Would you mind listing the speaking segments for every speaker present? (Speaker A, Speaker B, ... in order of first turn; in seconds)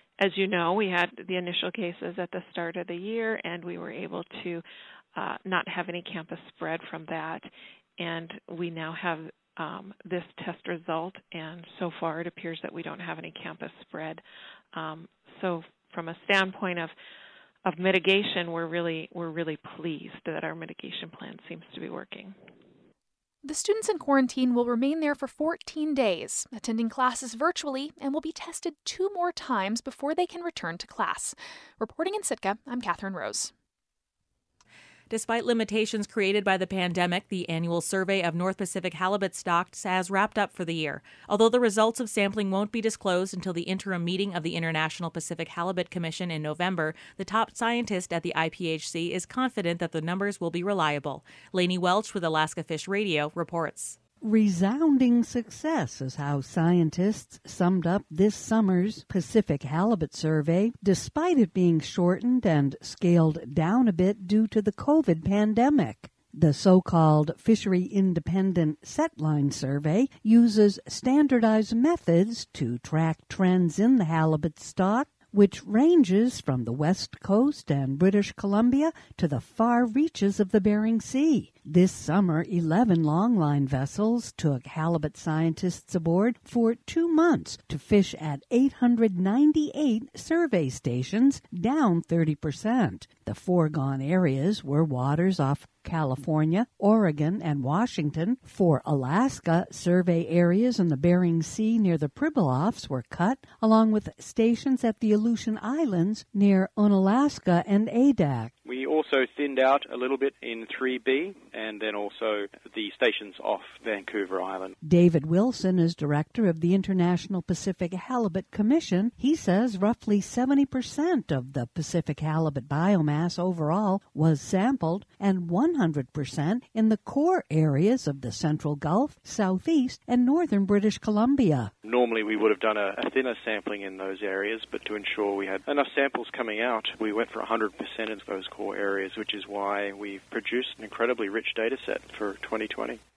Speaker A: 0.2-14.2, 14.7-16.9, 17.6-22.3
Speaker B: 23.4-33.5
Speaker C: 35.1-54.0
Speaker D: 54.2-108.5, 114.8-131.7
Speaker E: 108.6-114.7, 131.8-143.0